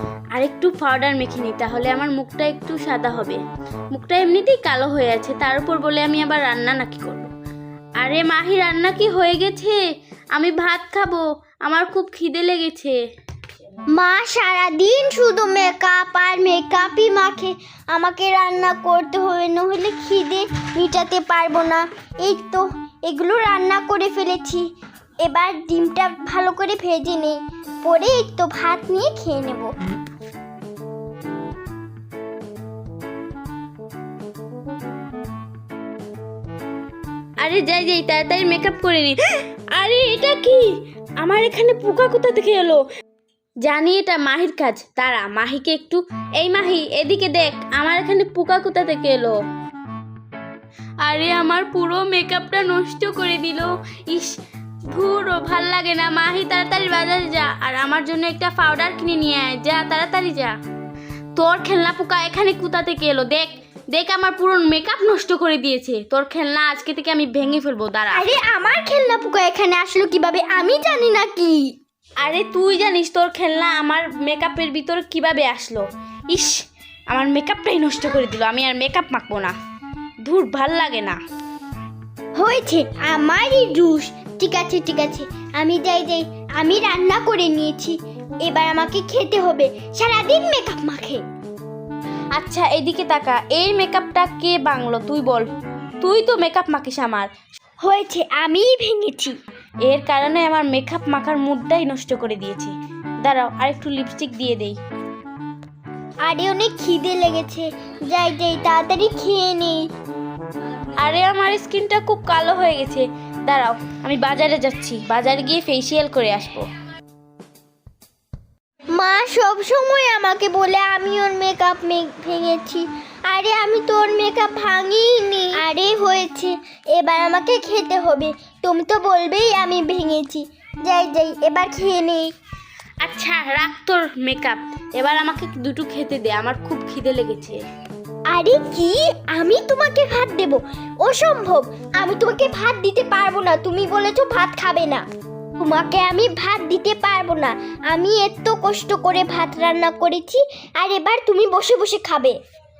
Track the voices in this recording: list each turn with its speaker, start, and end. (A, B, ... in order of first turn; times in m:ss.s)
0:00.3-0:03.4 A
0:03.9-0:07.3 A
0:08.0-0:09.8 A
0:10.3-0:13.0 A
0:13.9-0:24.7 B
0:25.2-0:29.7 B
0:37.4-0:39.2 A
0:39.7-0:42.8 A
0:43.6-0:49.4 A
0:51.0-0:54.4 A
0:54.9-1:00.5 A
1:01.4-1:08.3 A
1:08.1-1:11.7 B
1:12.2-1:16.6 A
1:17.1-1:19.5 A
1:20.2-1:21.2 A
1:22.4-1:31.2 B
1:32.3-1:35.5 A
1:36.0-1:37.3 A
1:37.8-1:39.4 B
1:39.8-1:44.8 A
1:46.2-1:49.8 B
1:51.0-1:56.6 A
1:58.9-2:12.3 B
2:13.0-2:17.6 A
2:18.3-2:25.0 B
2:25.6-2:32.4 B